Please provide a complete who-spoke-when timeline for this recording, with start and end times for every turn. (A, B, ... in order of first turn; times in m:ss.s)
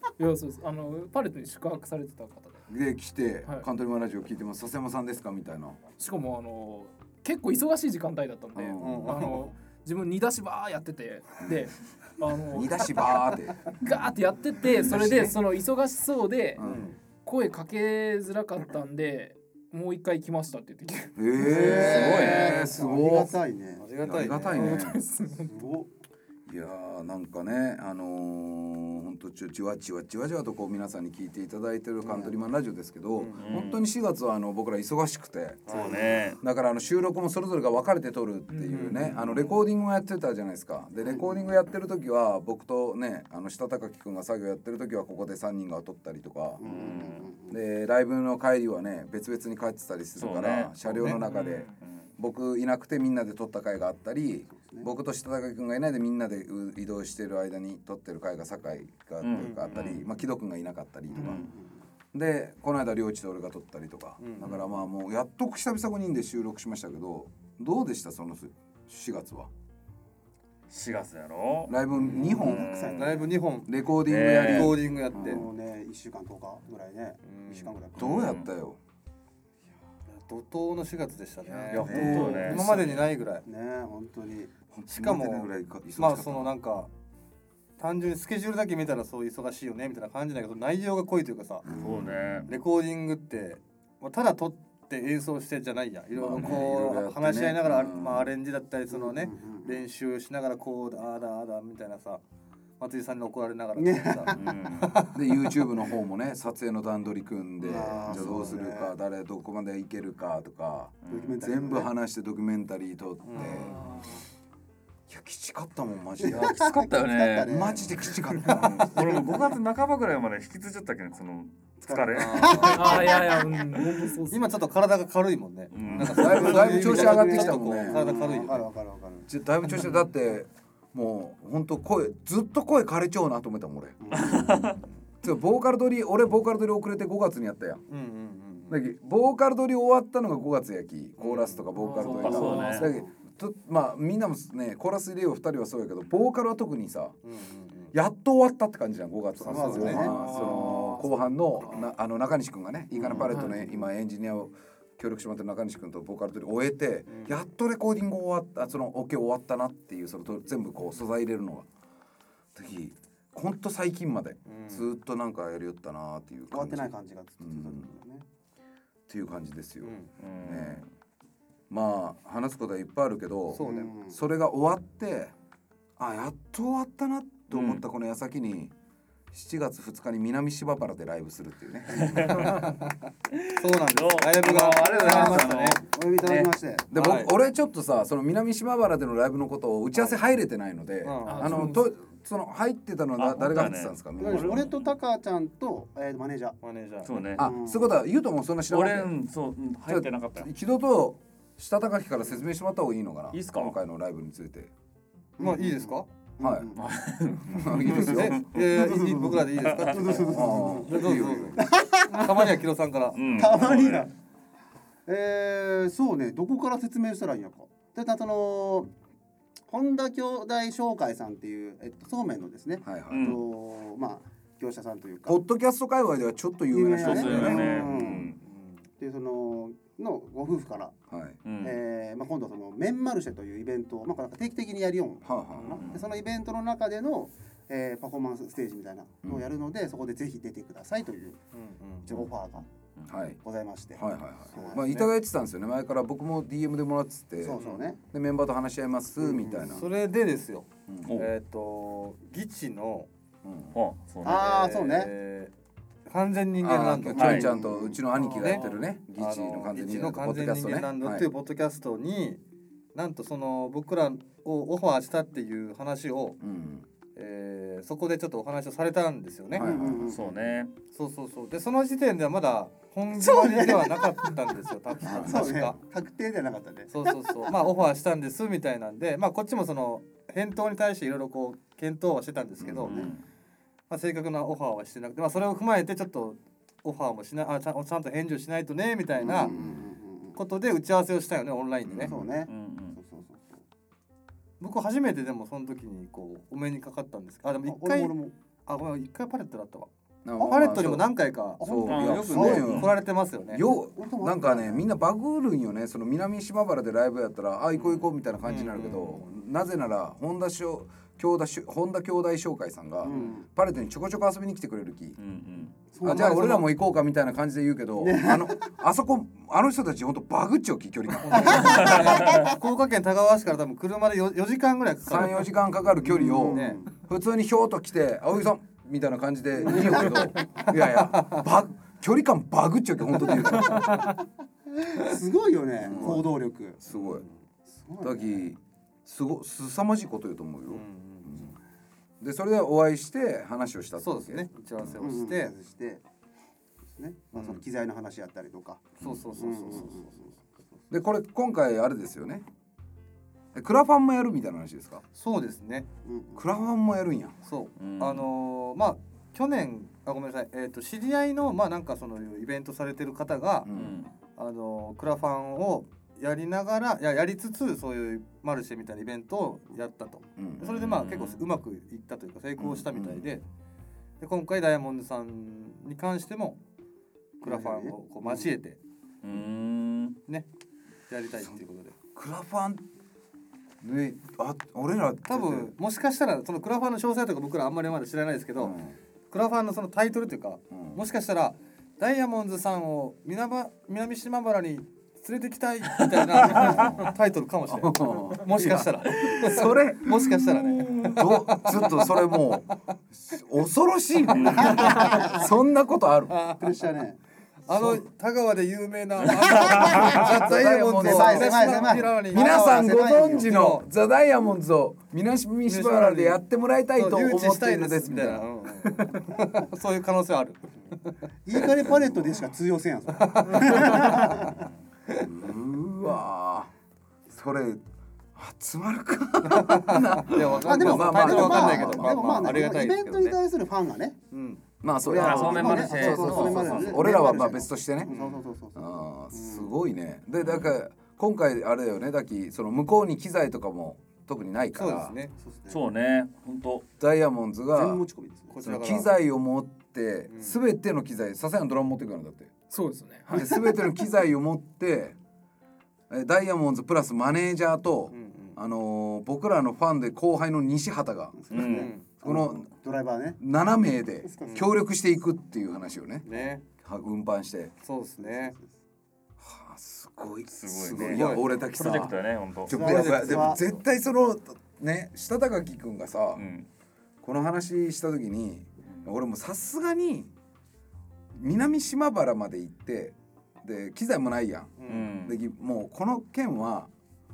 0:00.2-0:02.6 A
0:02.7-0:05.8 B
0:06.0-0:16.6 A
0:08.6-0:09.1 B
0:08.8-0:09.5 C
0:12.5-0:13.8 B
0:14.8-0:15.4 B
0:16.6-0:16.9 B
0:16.6-0:17.0 C
0:17.2-0:22.5 A
0:21.2-0:23.3 B
0:21.4-0:23.9 D
0:21.6-0:22.7 E
0:21.9-0:22.5 C
0:23.8-0:24.8 C
0:24.0-0:25.0 B
0:24.5-0:25.5 A
0:25.4-0:25.9 D
0:26.5-0:46.7 B
0:32.0-0:32.4 D
0:33.2-0:33.6 C
0:33.4-0:33.8 E
0:35.7-0:36.4 E
0:35.7-0:36.0 C
0:35.7-0:36.3 D
0:38.5-0:38.8 A
0:38.7-0:39.2 C
0:41.0-0:41.6 D
0:46.6-0:47.6 D
0:46.6-0:47.3 E
0:47.5-1:01.5 B
0:50.2-0:52.1 E
0:54.5-0:54.9 D
0:59.2-1:00.0 E
0:59.4-0:59.9 C
1:01.1-1:01.8 D
1:02.1-1:09.5 B
1:04.2-1:04.6 C
1:10.7-1:11.8 E
1:11.7-1:12.8 B
1:12.0-1:13.4 D
1:12.3-1:13.2 E
1:12.9-1:13.8 C
1:13.7-1:15.4 B
1:14.0-1:14.8 E
1:14.3-1:15.4 C
1:15.1-1:18.3 D
1:17.2-1:17.8 C
1:18.0-1:18.8 B
1:18.0-1:18.5 E
1:20.1-1:23.4 C
1:21.5-1:22.6 D
1:21.7-1:22.6 B
1:21.7-1:23.1 E
1:23.5-1:24.5 D
1:24.7-1:26.6 B
1:24.9-1:26.9 C
1:27.8-1:31.6 C
1:31.6-1:32.6 B
1:31.7-1:32.0 D
1:31.8-1:32.5 E
1:32.5-1:42.2 C
1:36.2-1:38.3 B
1:38.9-1:39.8 D
1:42.8-1:45.5 C
1:43.8-1:44.5 D
1:44.3-1:44.9 E
1:45.1-1:54.0 B
1:47.6-1:48.9 D
1:51.0-1:51.4 E
1:51.1-1:51.9 D
1:53.2-1:53.8 C
1:53.4-1:54.2 A
1:55.1-1:56.5 B
1:56.2-1:58.1 D
1:56.3-2:03.1 E
1:57.4-1:59.2 B
1:59.1-1:59.6 D
2:01.8-2:03.6 D
2:02.2-2:03.3 C
2:02.6-2:04.5 A
2:04.3-2:08.7 C
2:05.7-2:06.5 E
2:05.8-2:08.1 B
2:06.2-2:09.3 D
2:09.2-2:14.5 B
2:09.7-2:10.0 A
2:14.0-2:14.8 D
2:14.1-2:14.8 E
2:15.2-2:17.8 B
2:17.9-2:18.8 C
2:18.7-2:27.2 B
2:21.2-2:21.7 C
2:21.8-2:22.9 A
2:22.0-2:22.9 E
2:22.3-2:23.1 D
2:27.2-2:27.9 C
2:27.9-2:41.7 B
2:29.4-2:30.4 D
2:29.4-2:30.1 C
2:29.6-2:31.1 A
2:32.9-2:33.5 D
2:33.1-2:33.8 A
2:37.1-2:37.4 C
2:42.6-2:47.9 B
2:44.5-2:44.9 C
2:46.5-2:48.2 D
2:49.1-2:50.8 B
2:49.8-2:50.1 C
2:50.2-2:50.9 E
2:51.7-2:55.3 B
2:53.5-2:53.9 C
2:53.6-2:54.2 D
2:56.0-2:58.7 B
2:57.5-2:57.8 E
2:59.3-3:02.4 B
3:01.9-3:02.6 E
3:02.3-3:03.0 C
3:03.3-3:06.5 E
3:03.6-3:05.8 C
3:04.7-3:06.9 D
3:06.9-3:14.7 B
3:06.9-3:07.4 C
3:09.9-3:10.2 C
3:11.0-3:11.7 C
3:11.3-3:11.9 A
3:13.2-3:14.8 E
3:14.2-3:16.6 D
3:16.6-3:17.1 C
3:17.0-3:17.5 E
3:17.4-3:17.9 D
3:17.4-3:19.1 B
3:18.7-3:20.5 E
3:19.9-3:24.7 B
3:23.3-3:23.8 E
3:25.4-3:26.8 D
3:25.4-3:26.1 C
3:26.4-3:26.7 B
3:26.7-3:28.4 E
3:27.5-3:28.4 B
3:27.9-3:34.0 C
3:28.6-3:32.5 D
3:30.2-3:31.7 B
3:33.1-3:34.0 E
3:33.3-3:34.1 D
3:35.1-3:38.9 D
3:39.7-3:45.4 D
3:42.8-3:43.4 B
3:43.1-3:43.4 E
3:45.3-3:48.0 B
3:46.7-3:48.3 D
3:47.0-3:48.4 E
3:47.1-3:48.9 C
3:49.0-3:50.9 D
3:51.1-3:51.4 B
3:51.4-3:51.8 E
3:51.6-4:01.4 D
3:55.2-3:56.0 B
3:55.7-3:56.0 E
4:01.5-4:02.3 C
4:02.1-4:02.7 D
4:03.1-4:03.4 B
4:03.4-4:04.8 D
4:04.0-4:09.9 B
4:04.5-4:05.1 C
4:07.4-4:08.0 D
4:07.6-4:07.9 C
4:09.2-4:09.9 D
4:09.6-4:13.1 C
4:10.9-4:11.2 B
4:13.4-4:13.8 B
4:13.7-4:14.4 E
4:14.2-4:15.1 D
4:14.2-4:15.5 C
4:16.1-4:17.5 C
4:16.6-4:21.3 B
4:17.1-4:18.0 D
4:17.1-4:17.5 E
4:18.2-4:22.4 C
4:22.9-4:26.4 C
4:26.4-4:26.9 B
4:27.2-4:29.7 C
4:29.5-4:30.2 B
4:29.6-4:30.3 D
4:30.0-4:30.7 E
4:30.9-4:35.8 C
4:33.1-4:34.2 D
4:35.0-4:35.4 B
4:35.0-4:37.6 D
4:36.9-4:43.1 C
4:42.7-4:43.1 D
4:42.8-4:43.2 E
4:43.9-4:49.5 C
4:49.2-4:50.4 D
4:49.4-4:49.8 B
4:50.4-4:52.1 C
4:51.9-4:52.2 B
4:52.0-4:53.0 E
4:52.0-4:53.6 D
4:54.6-5:03.7 C
4:57.6-4:58.3 D
5:00.2-5:15.2 B
5:01.6-5:02.8 D
5:01.9-5:02.9 E
5:03.7-5:04.9 D
5:07.8-5:09.3 C
5:13.0-5:13.5 D
5:13.1-5:13.4 C
5:15.2-5:15.7 E
5:15.9-5:16.6 D
5:16.0-5:21.8 B
5:16.0-5:16.7 C
5:18.0-5:18.7 D
5:21.2-5:25.6 C
5:21.4-5:22.5 D
5:25.1-5:34.1 B
5:26.0-5:26.9 D
5:26.5-5:26.8 C
5:29.7-5:30.2 D
5:31.1-5:31.4 C
5:33.3-5:33.9 D
5:34.8-5:36.8 D
5:35.8-5:36.3 B
5:36.8-5:37.2 B
5:36.9-5:37.4 C
5:37.7-5:38.5 D
5:38.0-5:41.6 B
5:40.7-5:41.4 C
5:42.2-5:45.1 B
5:44.0-5:45.5 C
5:45.0-5:46.0 D
5:47.0-5:50.4 D
5:47.3-5:47.6 C
5:49.0-5:50.2 C
5:50.9-5:52.4 B
5:53.5-5:55.0 B
5:55.1-5:55.9 C
5:56.0-5:56.5 D
5:56.4-5:57.4 B
5:57.4-6:03.7 C
5:57.8-5:58.3 E
6:03.6-6:04.0 B
6:03.7-6:04.1 E
6:04.4-6:13.4 C
6:10.4-6:10.8 B
6:10.7-6:11.4 E
6:12.6-6:13.3 B
6:14.2-6:16.6 C
6:17.4-6:18.0 D
6:17.4-6:18.8 C
6:19.2-6:20.2 E
6:21.1-6:22.0 C
6:22.2-6:22.8 B
6:23.8-6:25.7 B
6:25.3-6:28.8 C
6:28.6-6:29.0 B
6:29.3-6:42.2 C
6:30.7-6:31.0 B
6:36.4-6:37.1 E
6:36.5-6:37.1 D
6:37.7-6:46.4 B
6:39.1-6:39.5 E
6:40.7-6:41.1 A
6:44.3-6:45.2 E
6:44.6-6:45.5 D
6:44.7-6:45.3 C
6:46.3-6:46.8 C
6:46.6-6:47.2 D
6:47.7-6:52.8 C
6:47.7-6:48.0 B
6:49.5-6:53.5 D
6:49.6-6:50.3 E
6:50.2-6:58.5 B
6:53.4-6:53.9 C
6:55.7-7:01.8 C
7:01.4-7:04.7 D
7:03.2-7:04.6 C
7:05.2-7:06.7 B
7:07.3-7:07.8 B
7:08.4-7:12.6 B
7:09.4-7:13.4 C
7:10.5-7:14.2 D
7:14.3-7:14.6 C
7:14.8-7:18.1 B
7:15.0-7:19.8 D
7:15.1-7:17.1 E
7:15.2-7:16.8 C
7:18.0-7:18.5 C
7:18.8-7:25.2 B
7:20.4-7:20.8 E
7:24.7-7:25.3 C
7:25.4-7:25.8 D
7:25.7-7:26.8 E
7:27.0-7:28.0 B
7:27.7-7:28.5 D
7:28.5-7:29.1 C
7:28.6-7:32.5 B
7:30.3-7:30.6 C
7:32.7-7:33.5 A
7:33.3-7:35.2 B
7:33.3-7:33.6 D
7:36.1-7:41.4 B
7:38.1-7:38.6 C
7:41.3-7:43.4 D
7:41.5-7:41.9 E
7:41.7-7:42.1 C
7:42.2-7:42.7 B
7:43.4-7:46.3 B
7:44.2-7:44.7 D
7:44.4-7:44.7 C
7:46.2-7:46.6 C
7:46.8-7:47.7 B
7:47.8-7:48.6 C
7:48.2-7:48.7 D
7:49.4-7:56.4 B
7:50.5-7:52.8 E
7:51.1-7:51.5 C
7:52.7-7:53.6 D
7:52.8-7:53.5 C
7:56.4-7:56.7 E
7:57.2-8:00.3 B
8:01.4-8:06.9 B
8:04.8-8:05.1 C
8:04.9-8:05.4 E